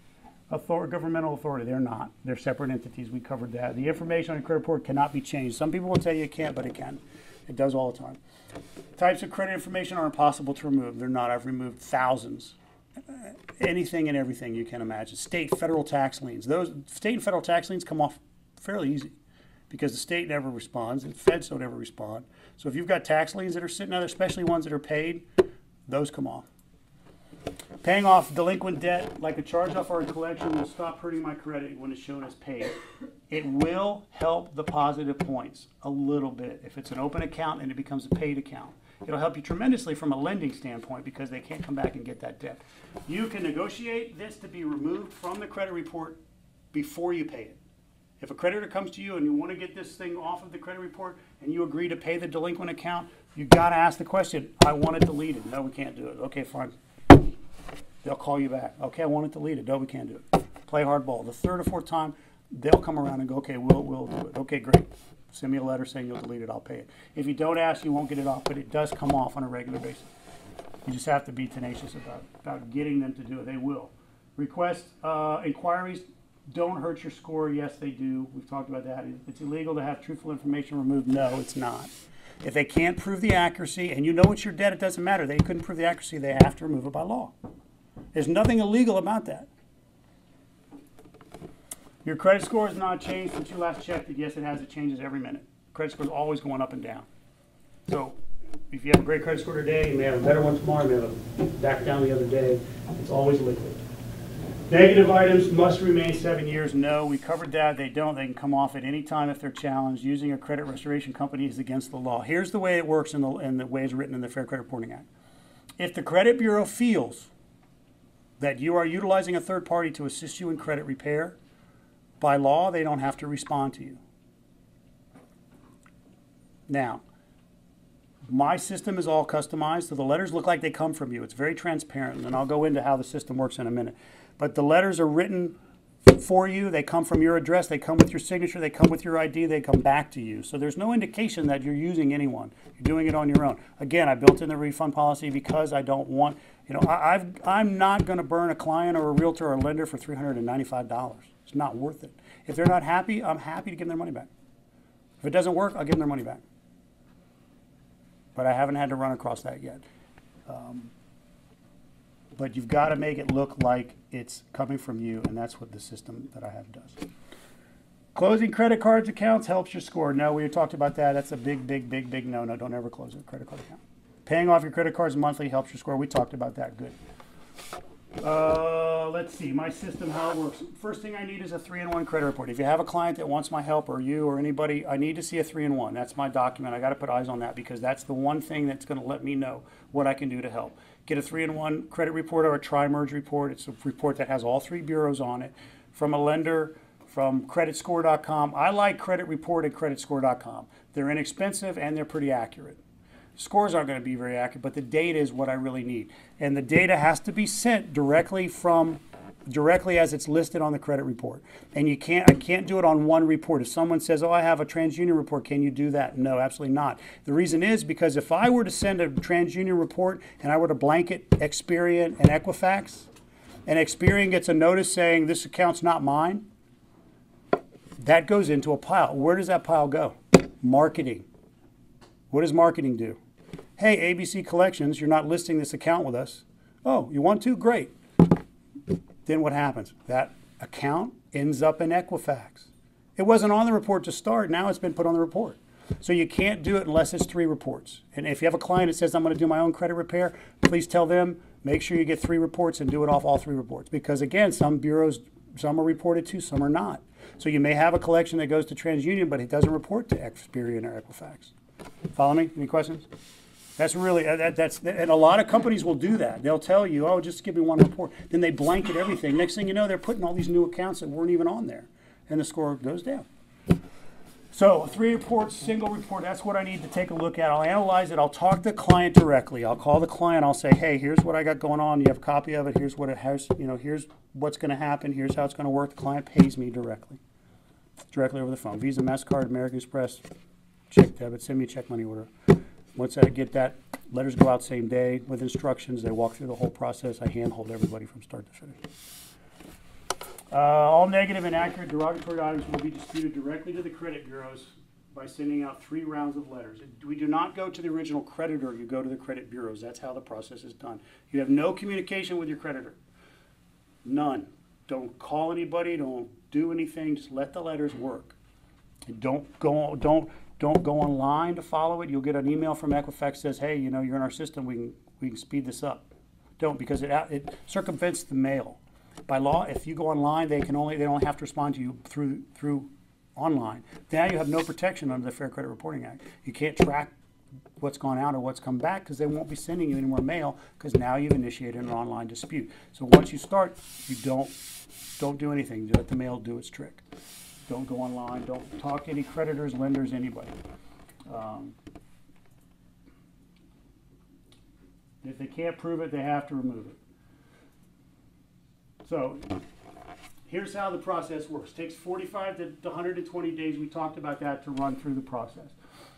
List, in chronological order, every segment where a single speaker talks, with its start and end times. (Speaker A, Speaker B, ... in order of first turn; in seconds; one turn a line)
Speaker A: 0.5-8.2
Speaker A: 8.9-12.6
Speaker A: 13.1-19.1
Speaker A: 19.7-25.2
Speaker A: 25.9-26.4
Speaker A: 27.8-46.2
Speaker A: 46.7-47.6
Speaker A: 48.2-56.7
Speaker A: 58.0-70.1
Speaker A: 70.8-87.3
Speaker A: 88.1-89.5
Speaker A: 92.0-97.1
Speaker A: 97.9-103.8
Speaker A: 104.7-115.1
Speaker A: 115.8-117.3
Speaker A: 118.4-121.4
Speaker A: 122.2-124.0
Speaker A: 126.7-127.0
Speaker A: 128.3-154.3
Speaker A: 155.2-156.4
Speaker A: 158.3-159.8
Speaker A: 160.5-160.9
Speaker A: 162.3-167.0
Speaker A: 168.1-176.9
Speaker A: 178.2-202.8
Speaker A: 203.4-223.1
Speaker A: 223.7-226.4
Speaker A: 228.0-231.3
Speaker A: 232.3-233.2
Speaker A: 233.8-237.9
Speaker A: 239.2-261.5
Speaker A: 262.1-263.1
Speaker A: 263.8-273.2
Speaker A: 274.5-287.2
Speaker A: 288.1-290.2
Speaker A: 290.9-292.3
Speaker A: 292.9-298.9
Speaker A: 300.5-313.0
Speaker A: 314.0-318.4
Speaker A: 319.1-337.1
Speaker A: 337.8-344.6
Speaker A: 345.2-347.0
Speaker A: 347.7-350.5
Speaker A: 351.3-351.8
Speaker A: 355.2-357.0
Speaker A: 359.0-359.6
Speaker A: 360.4-365.7